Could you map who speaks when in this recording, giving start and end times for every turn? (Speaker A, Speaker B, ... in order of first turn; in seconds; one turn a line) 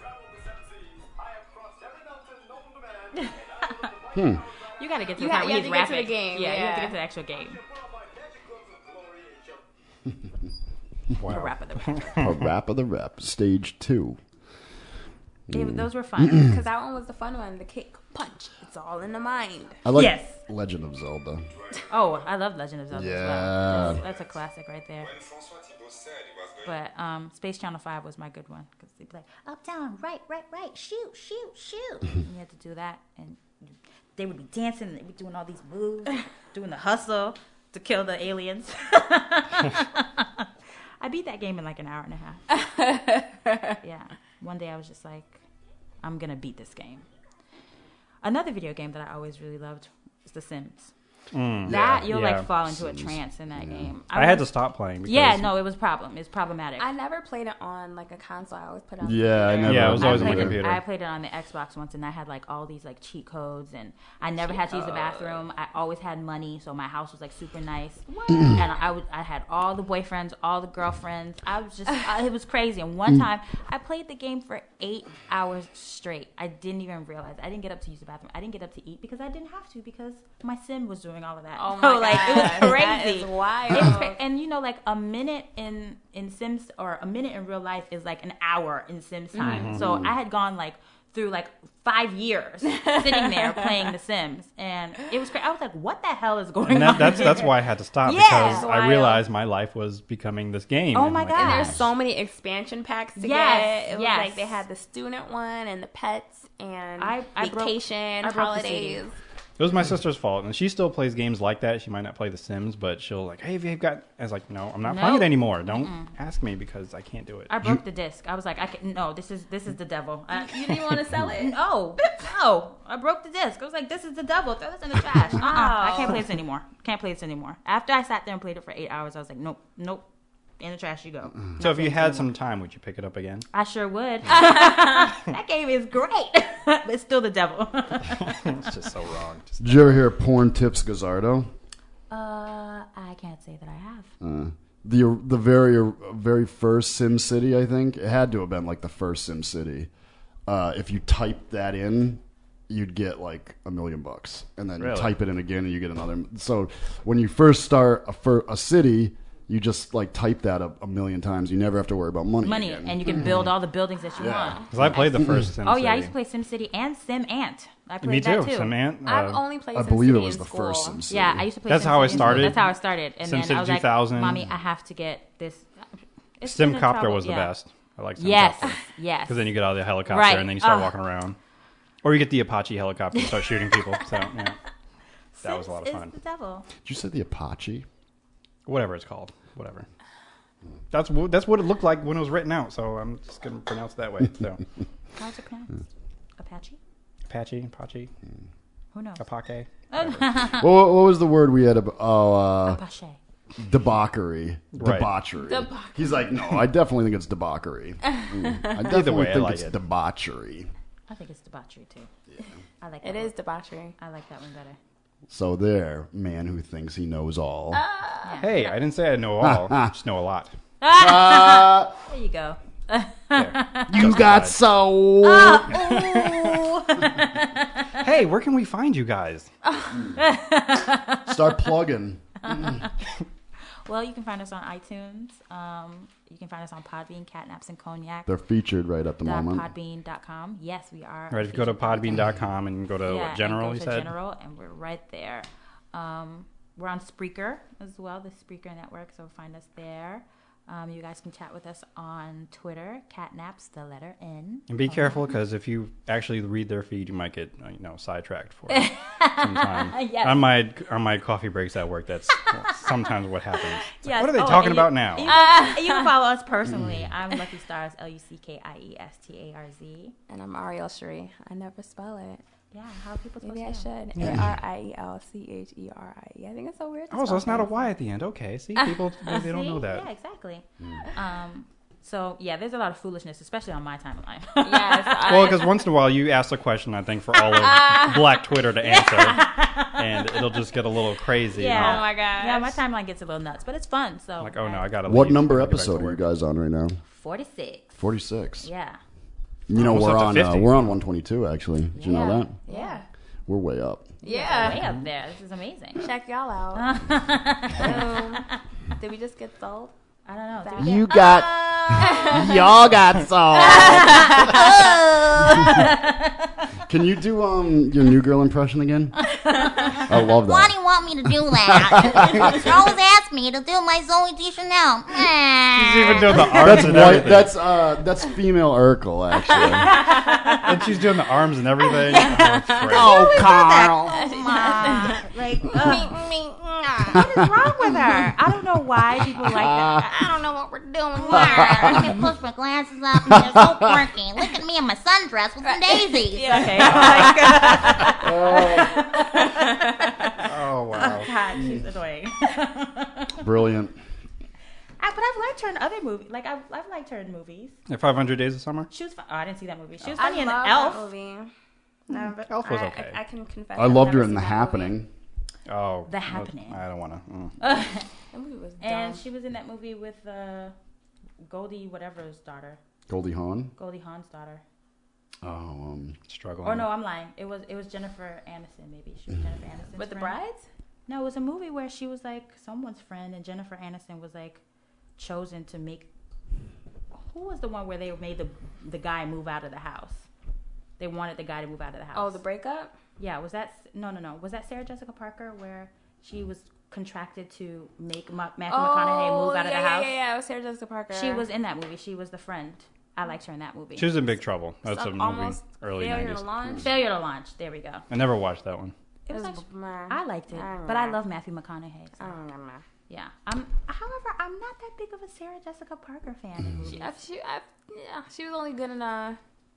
Speaker A: 4.1-4.5
Speaker B: 4.8-7.6
Speaker C: 5.2-7.0
Speaker D: 11.2-12.4
Speaker B: 11.3-12.1
Speaker A: 12.2-14.2
Speaker A: 15.5-15.9
Speaker B: 15.5-16.5
Speaker C: 16.2-19.8
Speaker A: 19.9-21.5
Speaker B: 19.9-20.4
Speaker B: 21.9-25.2
Speaker A: 22.9-24.0
Speaker B: 26.6-40.5
Speaker B: 41.0-42.4
Speaker C: 42.5-43.8
Speaker B: 43.8-45.4
Speaker B: 46.0-47.1
Speaker B: 48.2-50.9
Speaker D: 51.3-52.5
Speaker A: 51.6-52.1
Speaker B: 51.6-54.5
Speaker A: 52.6-53.9
Speaker D: 54.1-55.5
Speaker B: 55.0-56.9
Speaker C: 56.8-60.0
Speaker A: 59.0-60.6
Speaker B: 59.5-97.5
Speaker D: 59.6-60.8
Speaker C: 64.3-65.4
Speaker C: 68.1-68.7
Speaker C: 81.6-84.2
Speaker C: 89.4-89.8
Speaker D: 89.4-89.8
Speaker A: 89.7-90.1
Speaker C: 92.7-93.9
Speaker D: 96.7-101.8
Speaker B: 98.0-98.7
Speaker C: 98.2-99.2
Speaker B: 100.9-101.8
Speaker C: 101.4-109.2
Speaker B: 103.2-104.6
Speaker B: 107.0-109.0
Speaker D: 109.6-117.5
Speaker B: 114.8-116.1
Speaker B: 117.5-130.1
Speaker C: 120.3-122.2
Speaker C: 125.0-126.2
Speaker B: 130.6-132.3
Speaker D: 131.6-133.5
Speaker B: 133.5-138.4
Speaker C: 134.3-135.2
Speaker D: 138.2-140.0
Speaker A: 139.6-141.5
Speaker B: 142.1-144.1
Speaker A: 144.2-149.9
Speaker A: 150.5-163.4
Speaker D: 154.8-155.2
Speaker B: 162.4-168.8
Speaker A: 164.2-165.5
Speaker D: 164.7-166.1
Speaker D: 168.0-169.4
Speaker C: 169.0-171.0
Speaker A: 169.7-171.5
Speaker B: 171.1-175.7
Speaker D: 171.7-174.4
Speaker A: 172.1-172.6
Speaker B: 176.4-177.5
Speaker D: 176.4-181.4
Speaker B: 178.2-179.5
Speaker B: 180.1-180.9
Speaker D: 182.0-184.6
Speaker B: 185.4-186.7
Speaker D: 185.4-186.1
Speaker A: 186.8-187.9
Speaker D: 188.7-189.9
Speaker D: 190.9-194.6
Speaker B: 195.2-195.9
Speaker B: 196.4-196.8
Speaker D: 197.3-198.1
Speaker B: 198.9-199.2
Speaker D: 199.2-200.2
Speaker B: 199.9-200.7
Speaker A: 200.5-202.8
Speaker B: 202.7-203.2
Speaker A: 203.6-210.7
Speaker D: 204.7-205.1
Speaker C: 205.4-206.3
Speaker C: 208.2-208.7
Speaker D: 208.8-209.8
Speaker B: 211.1-212.1
Speaker B: 212.8-213.4
Speaker C: 213.0-214.0
Speaker B: 214.0-214.8
Speaker A: 215.3-217.8
Speaker C: 217.7-218.7
Speaker B: 218.2-218.8
Speaker D: 218.4-220.5
Speaker A: 219.4-219.9
Speaker B: 220.8-224.0
Speaker A: 220.9-221.9
Speaker D: 223.3-224.6
Speaker A: 223.9-225.8
Speaker B: 225.2-228.0
Speaker D: 225.8-226.8
Speaker D: 228.0-229.5
Speaker B: 230.2-231.3
Speaker A: 231.3-232.8
Speaker B: 232.4-232.9
Speaker B: 233.9-238.3
Speaker A: 238.3-239.7
Speaker B: 239.2-242.3
Speaker D: 241.3-244.1
Speaker B: 243.1-255.3
Speaker D: 254.7-265.4
Speaker B: 258.7-260.5
Speaker B: 264.0-270.1
Speaker C: 265.2-266.2
Speaker C: 270.3-272.4
Speaker B: 272.7-273.9
Speaker C: 273.4-277.8
Speaker D: 274.2-274.5
Speaker D: 277.1-280.1
Speaker B: 277.5-277.9
Speaker B: 279.3-285.6
Speaker C: 284.6-285.8
Speaker D: 285.3-292.1
Speaker C: 287.4-288.5
Speaker B: 288.9-290.4
Speaker B: 291.5-294.9
Speaker C: 291.6-292.8
Speaker D: 294.4-296.2
Speaker A: 295.1-297.0
Speaker B: 297.1-298.0
Speaker A: 298.0-298.7
Speaker B: 298.6-299.0
Speaker A: 299.7-302.5
Speaker D: 299.7-300.9
Speaker B: 301.9-303.0
Speaker C: 302.7-303.1
Speaker A: 303.5-304.1
Speaker C: 304.2-304.8
Speaker B: 304.2-306.1
Speaker C: 306.0-307.0
Speaker B: 306.8-308.5
Speaker C: 307.7-309.9
Speaker B: 310.3-312.5
Speaker C: 310.6-311.1
Speaker A: 310.8-314.4
Speaker C: 311.9-312.6
Speaker C: 313.6-314.6
Speaker B: 313.8-314.6
Speaker E: 314.4-315.8
Speaker B: 315.4-316.3
Speaker A: 316.9-319.2
Speaker A: 320.0-320.8
Speaker E: 320.4-326.8
Speaker A: 321.6-322.7
Speaker D: 325.8-327.5
Speaker A: 326.4-330.0
Speaker C: 329.5-330.7
Speaker B: 329.9-330.7
Speaker D: 330.6-333.2
Speaker B: 332.1-336.1
Speaker A: 332.9-334.3
Speaker C: 333.1-333.6
Speaker C: 334.1-337.2
Speaker B: 337.1-340.1
Speaker A: 339.4-340.1
Speaker C: 339.9-342.2
Speaker E: 341.2-346.6
Speaker A: 341.3-342.2
Speaker A: 343.2-344.1
Speaker C: 345.6-350.4
Speaker B: 346.4-353.4
Speaker A: 348.1-349.0
Speaker D: 350.4-351.3
Speaker A: 353.4-354.0
Speaker B: 355.0-357.8
Speaker D: 357.9-358.9
Speaker B: 358.9-361.1
Speaker C: 360.2-361.5
Speaker B: 362.1-362.5
Speaker C: 362.1-365.0
Speaker D: 362.5-363.2
Speaker A: 363.8-365.1
Speaker D: 365.7-367.6
Speaker B: 366.1-366.8
Speaker B: 367.6-368.1
Speaker C: 368.3-369.2
Speaker B: 368.8-370.8
Speaker B: 371.4-372.8
Speaker A: 373.1-373.7
Speaker B: 373.8-374.6
Speaker A: 375.4-376.2
Speaker D: 376.3-376.9
Speaker B: 376.6-380.4
Speaker C: 380.0-380.6
Speaker B: 381.1-384.6
Speaker B: 385.2-386.1
Speaker B: 387.3-390.3
Speaker B: 391.0-392.4
Speaker C: 392.1-392.9
Speaker B: 393.2-400.2
Speaker C: 398.7-401.5
Speaker B: 401.1-404.4
Speaker D: 404.0-406.4
Speaker C: 404.9-406.9
Speaker B: 406.8-408.1
Speaker D: 408.1-408.9
Speaker B: 409.3-412.3
Speaker C: 409.3-411.2
Speaker C: 412.2-412.8
Speaker B: 413.1-417.2
Speaker C: 416.9-419.4